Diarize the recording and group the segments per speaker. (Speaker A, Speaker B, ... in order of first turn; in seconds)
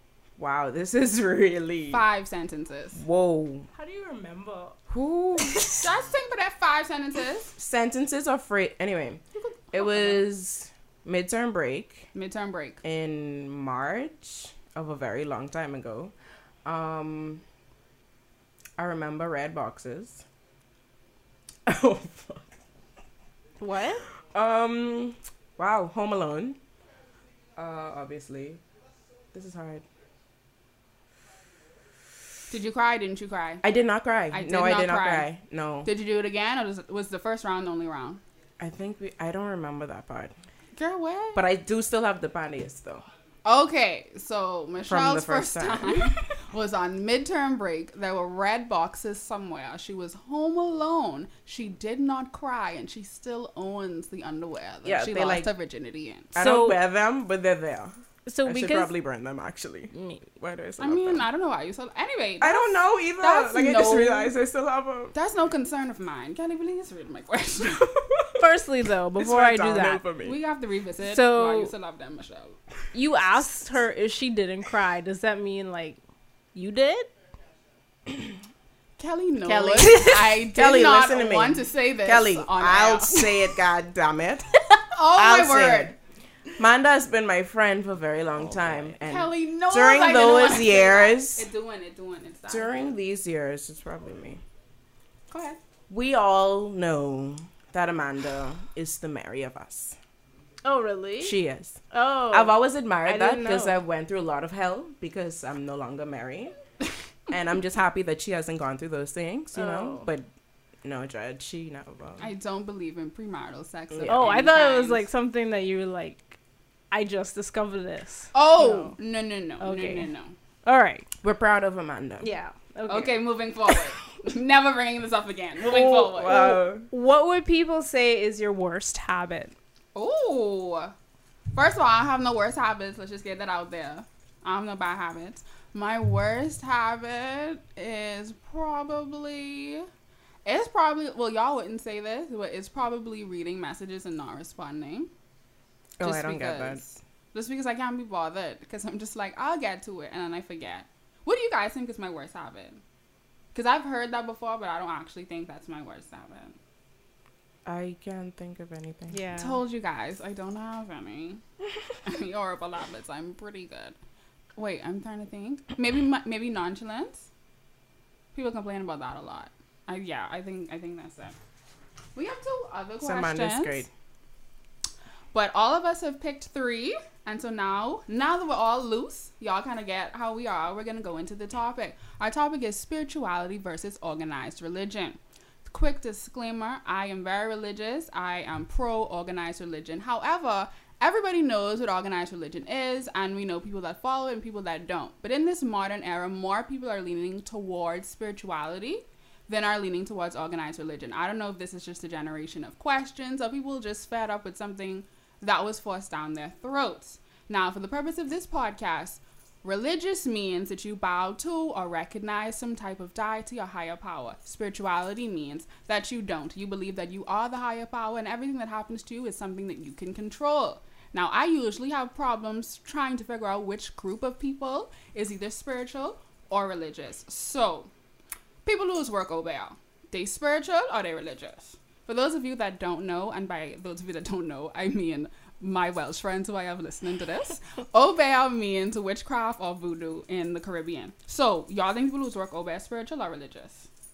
Speaker A: 0.4-2.0, 2.9-3.7, 4.9-5.9, 7.6-9.2, 9.7-12.1, 12.8-16.1, 16.6-17.4, 18.8-20.2, 21.6-22.5, 24.3-26.6, 27.6-28.6, 29.3-29.8, 33.6-35.9, 38.6-40.3, 41.3-43.0, 44.9-46.1, 54.8-55.5, 56.3-61.2, 62.4-65.1, 67.7-68.5, 69.1-70.3, 79.7-84.5, 85.1-85.9, 86.6-91.5, 92.5-94.4, 95.9-100.0, 101.2-101.8, 102.3-106.5, 107.3-110.3, 110.8-112.3, 113.9-114.3, 121.2-122.3, 125.6-126.9, 146.0-146.8, 157.7-159.2, 173.0-173.9
Speaker B: 1.9-3.0, 5.7-7.5, 9.3-10.2, 12.1-12.8, 32.5-33.6, 34.3-35.3, 35.8-38.2, 40.8-41.4, 43.4-56.3, 60.8-64.3, 65.1-67.9, 70.2-72.6, 79.0-83.2, 84.9-86.0, 89.0-92.9, 95.3-95.6, 112.2-115.0, 118.3-120.3, 122.9-126.5, 129.9-130.9, 131.5-139.9, 140.4-145.1, 146.0-152.8, 153.5-156.6, 159.4-161.4, 162.0-164.0, 164.6-167.3, 168.3-171.3, 172.1-173.9, 175.3-227.9, 228.6-243.9
Speaker C: 3.7-4.8, 23.6-24.0, 56.4-56.8, 58.3-58.9, 59.9-60.2, 68.4-70.0, 71.0-71.7, 72.9-76.0, 76.5-77.1, 79.5-80.3, 100.6-101.4, 101.9-103.8, 109.5-110.1, 114.1-116.4, 116.9-119.0, 119.6-120.1, 120.6-121.1, 122.2-123.3, 126.3-129.5, 159.1-159.6